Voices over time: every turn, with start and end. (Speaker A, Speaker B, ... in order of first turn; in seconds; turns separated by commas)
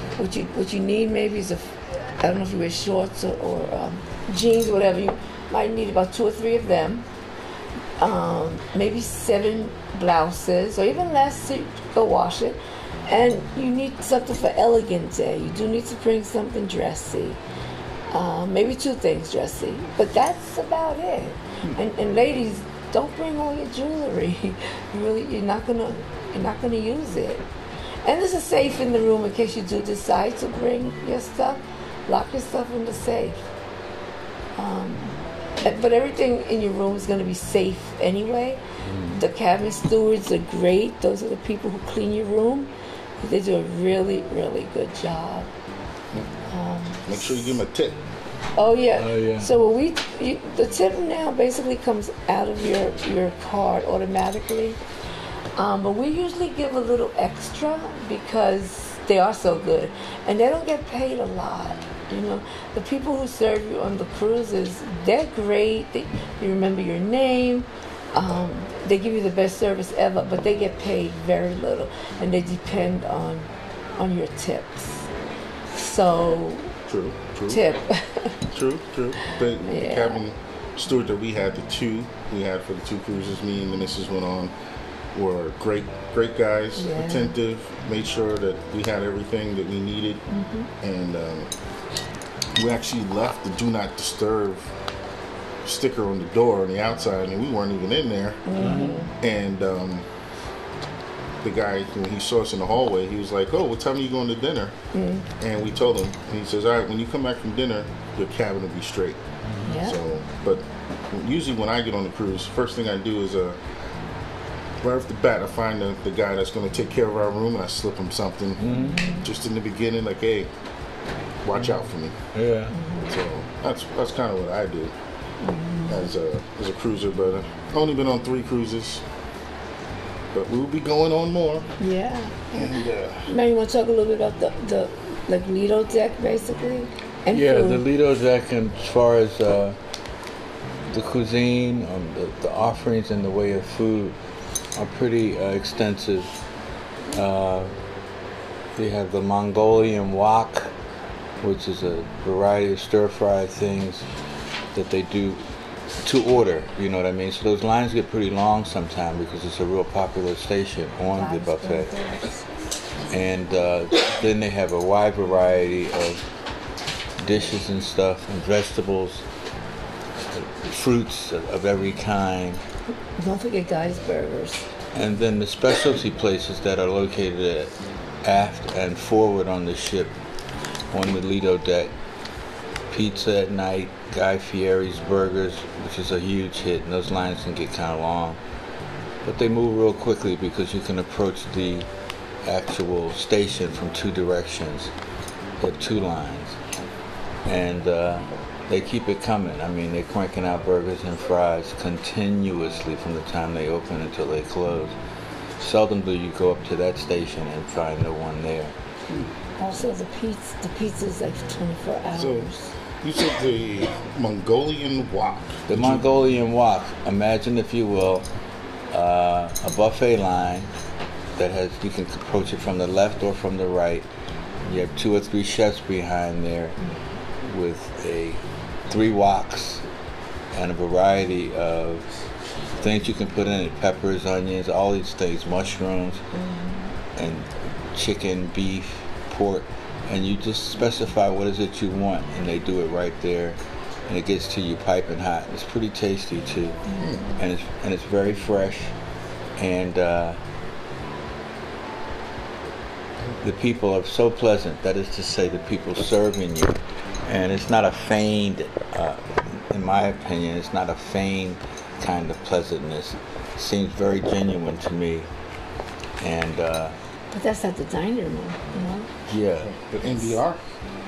Speaker A: 0.2-7.0, Speaker A: 8.0-17.4, Speaker A: 18.1-27.4, Speaker A: 28.0-33.5, Speaker A: 34.6-45.5, Speaker B: 38.9-39.2, Speaker A: 46.5-47.6, Speaker C: 47.1-48.0, Speaker A: 48.6-54.8, Speaker B: 49.0-49.5, Speaker A: 55.6-75.1, Speaker A: 75.7-76.7, Speaker C: 76.9-77.7, Speaker A: 77.5-78.4, Speaker C: 78.5-84.5, Speaker A: 79.7-80.2, Speaker C: 85.1-90.2, Speaker A: 86.8-87.3, Speaker A: 90.3-90.7, Speaker C: 90.8-91.5, Speaker C: 92.5-94.7, Speaker C: 95.6-98.6, Speaker A: 98.5-99.1, Speaker B: 98.6-99.0, Speaker C: 99.2-100.1, Speaker C: 101.4-104.7, Speaker A: 104.9-105.2, Speaker C: 105.4-109.2, Speaker A: 109.7-110.0, Speaker C: 109.8-113.6, Speaker C: 114.8-120.5, Speaker B: 118.6-119.1, Speaker A: 118.7-119.2, Speaker C: 121.4-122.2, Speaker B: 122.3-122.8, Speaker A: 122.7-123.1, Speaker C: 123.0-124.9, Speaker A: 125.4-126.1, Speaker C: 125.9-129.0, Speaker C: 130.3-131.7, Speaker A: 131.8-137.8, Speaker C: 132.5-133.3, Speaker B: 137.3-139.8, Speaker B: 140.9-144.2, Speaker B: 144.8-146.3, Speaker B: 147.1-147.7, Speaker B: 148.8-150.7, Speaker B: 151.4-154.1, Speaker B: 154.7-155.4, Speaker B: 156.0-161.9, Speaker A: 161.1-162.5, Speaker B: 163.1-166.2, Speaker B: 167.2-169.2, Speaker B: 170.3-172.6, Speaker A: 173.2-174.7, Speaker B: 174.9-177.7, Speaker B: 178.2-180.2, Speaker B: 180.9-181.9, Speaker B: 182.9-188.4, Speaker B: 189.2-191.9, Speaker B: 192.4-194.9, Speaker B: 195.6-196.6, Speaker B: 197.4-205.0, Speaker B: 205.6-208.8, Speaker A: 209.6-212.7, Speaker C: 212.2-212.5, Speaker C: 213.0-216.1, Speaker B: 215.7-218.3, Speaker B: 218.9-220.7, Speaker B: 221.4-224.1, Speaker B: 224.6-226.8, Speaker B: 227.4-229.8, Speaker B: 230.5-232.1, Speaker B: 232.8-236.2, Speaker A: 236.3-236.9, Speaker B: 237.2-248.9, Speaker A: 246.9-247.2, Speaker C: 247.0-247.3, Speaker B: 249.6-250.4, Speaker B: 253.4-265.3, Speaker B: 266.2-266.9, Speaker A: 267.3-269.1, Speaker B: 269.3-269.7, Speaker C: 269.6-270.6